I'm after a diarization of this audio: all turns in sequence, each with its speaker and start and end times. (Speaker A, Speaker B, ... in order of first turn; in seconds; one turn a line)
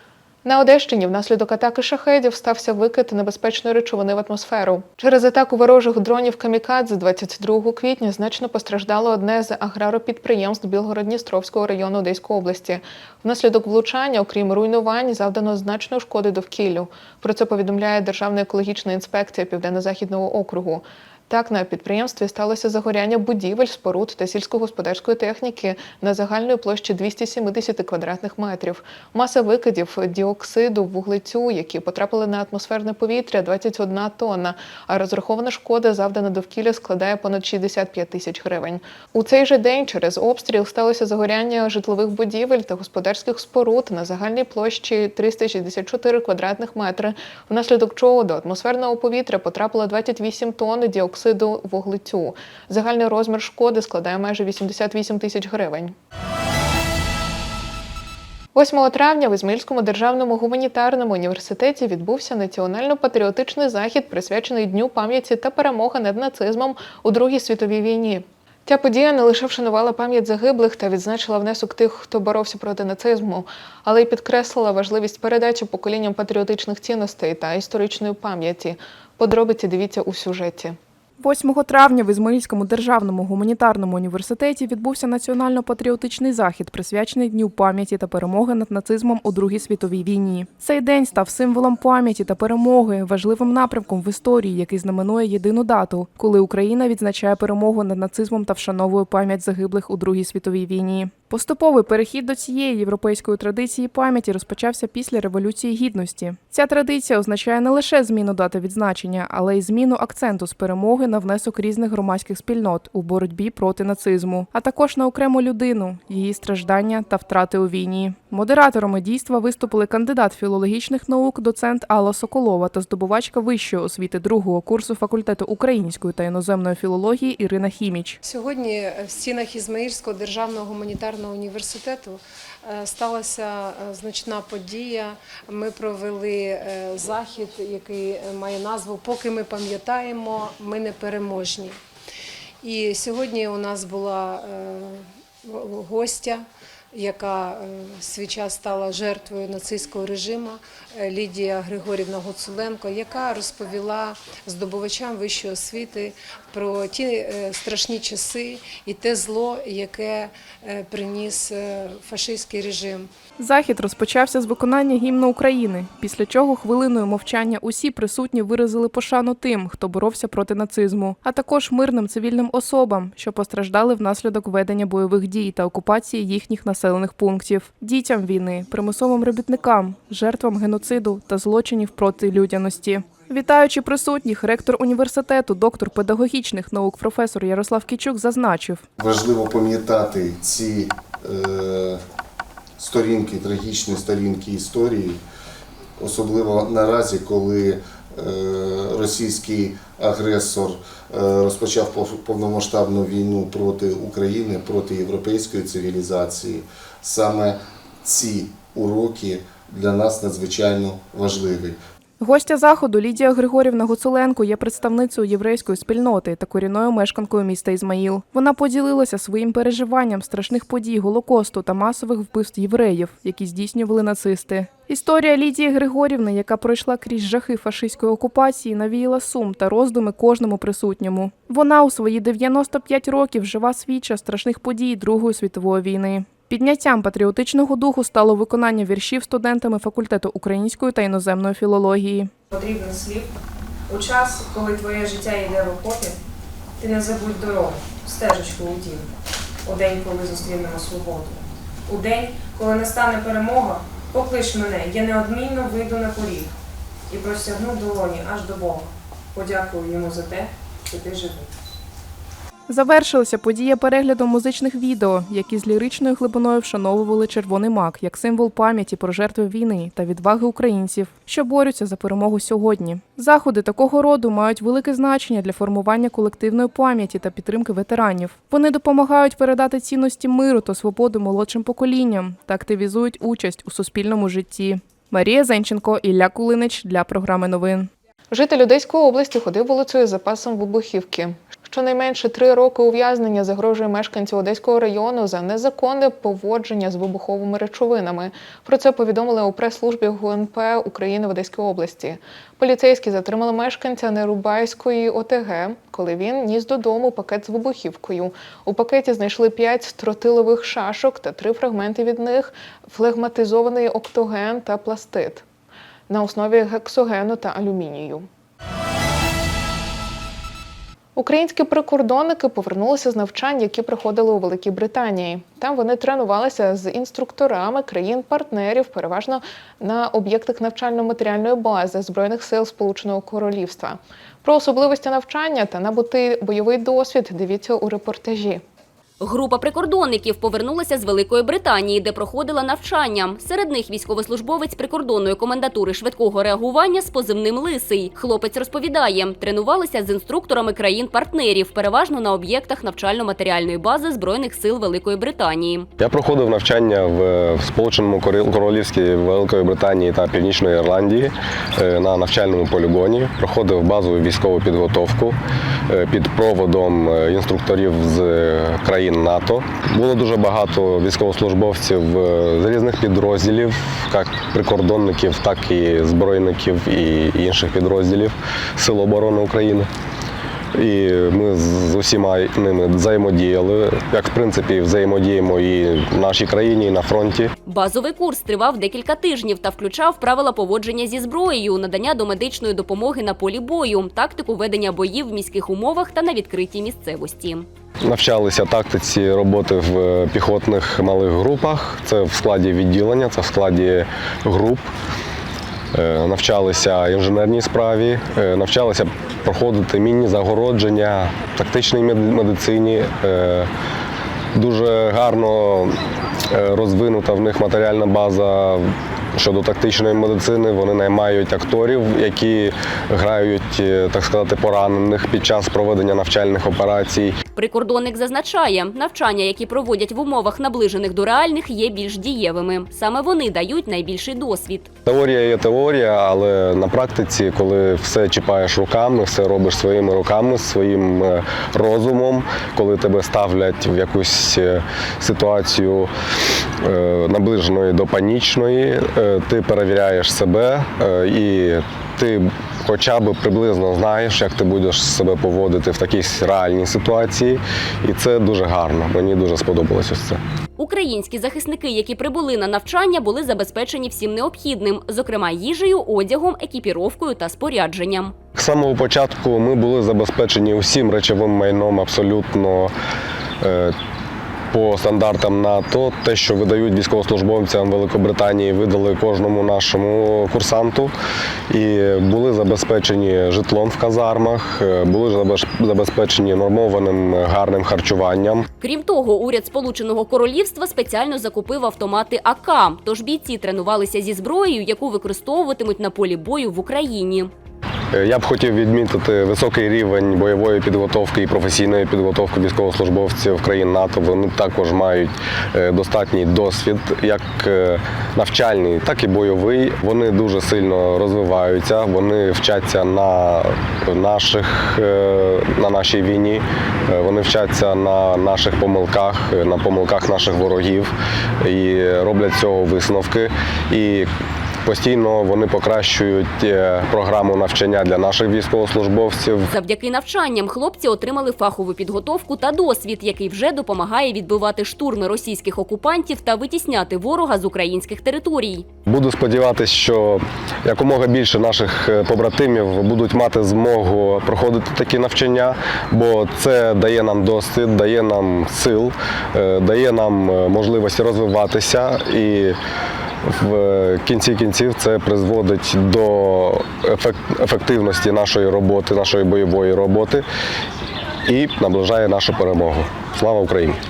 Speaker A: 0.5-56.0
Speaker A: 58.5-80.8
Speaker B: 81.2-128.2
Speaker C: 128.2-141.8
Speaker C: 142.6-163.1
Speaker B: 163.4-188.9
Speaker D: 189.0-192.0
Speaker D: 192.8-195.2
Speaker D: 196.0-211.8
Speaker B: 212.2-242.3
Speaker E: 242.5-243.3
Speaker E: 243.9-246.2
Speaker E: 246.8-249.1
Speaker E: 249.7-256.5
Speaker E: 257.1-261.5
Speaker B: 262.7-287.9
Speaker A: 288.3-315.4
Speaker A: 316.1-318.3
Speaker A: 321.2-338.6
Speaker F: 339.2-355.9
Speaker G: 356.0-365.4
Speaker G: 365.9-379.9
Speaker G: 380.7-387.5
Speaker F: 387.7-397.7
Speaker G: 398.0-404.9
Speaker G: 405.9-413.7
Speaker G: 414.5-416.0
Speaker G: 416.5-427.4
Speaker F: 427.6-434.9
Speaker G: 435.1-446.1
Speaker G: 446.8-460.4
Speaker F: 460.8-468.4
Speaker G: 468.6-472.9
Speaker G: 473.6-473.9
Speaker G: 474.7-481.1
Speaker G: 481.7-488.7
Speaker F: 488.8-497.5
Speaker G: 498.1-524.3
Speaker G: 524.9-529.7
Speaker F: 529.7-538.9
Speaker G: 539.1-552.8
Speaker G: 553.5-560.5
Speaker G: 561.5-564.0